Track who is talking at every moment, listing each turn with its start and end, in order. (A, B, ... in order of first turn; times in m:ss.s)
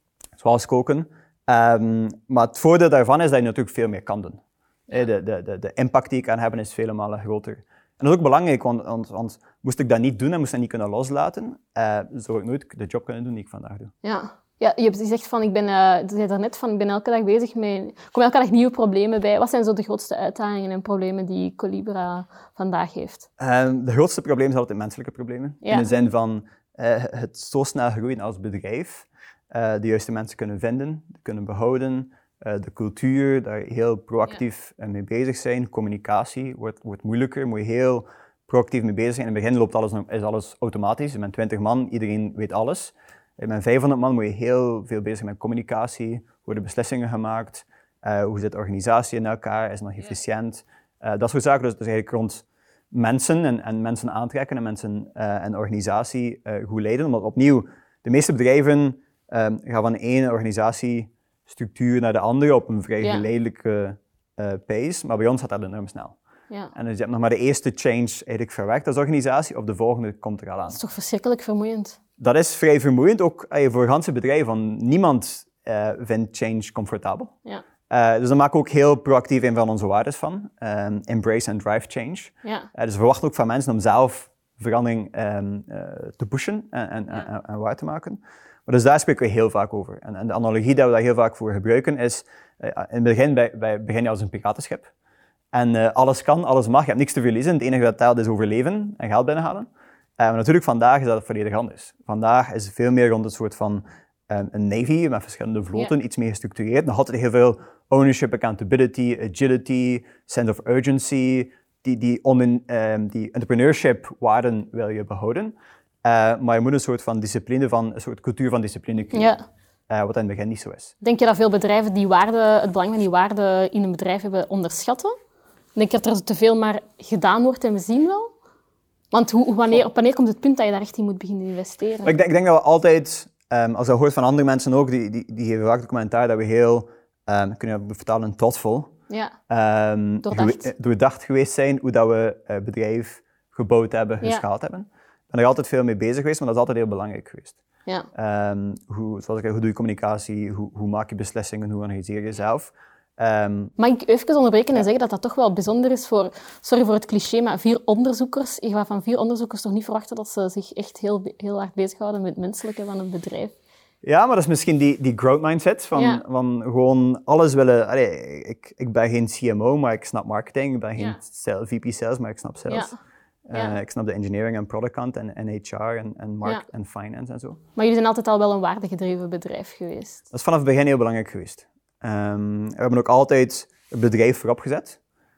0:00.4-0:13.9 A
0:14.0-0:23.3 B
0:23.4-1:06.2 A
0:25.6-0:25.9 B
1:03.0-1:03.2 B
1:06.7-1:10.8 A
1:10.7-1:12.0 B
1:12.2-1:17.3 A
1:17.9-1:34.9 A
1:35.5-1:39.7 A
1:40.2-1:59.3 A
1:59.1-1:59.4 B
1:59.9-2:00.9 A
2:01.0-2:05.1 B
2:05.8-2:08.3 B
2:09.1-2:12.1 B
2:12.0-2:18.9 A
2:19.1-2:19.3 B
2:19.5-2:27.6 A
2:20.2-2:20.6 B
2:28.1-2:33.7 A
2:33.8-2:43.5 B
2:44.0-2:52.9 A
2:45.9-2:46.2 B
2:52.7-2:53.0 B
2:53.5-2:57.6 A
2:57.8-3:00.2 B
3:00.3-3:05.0 A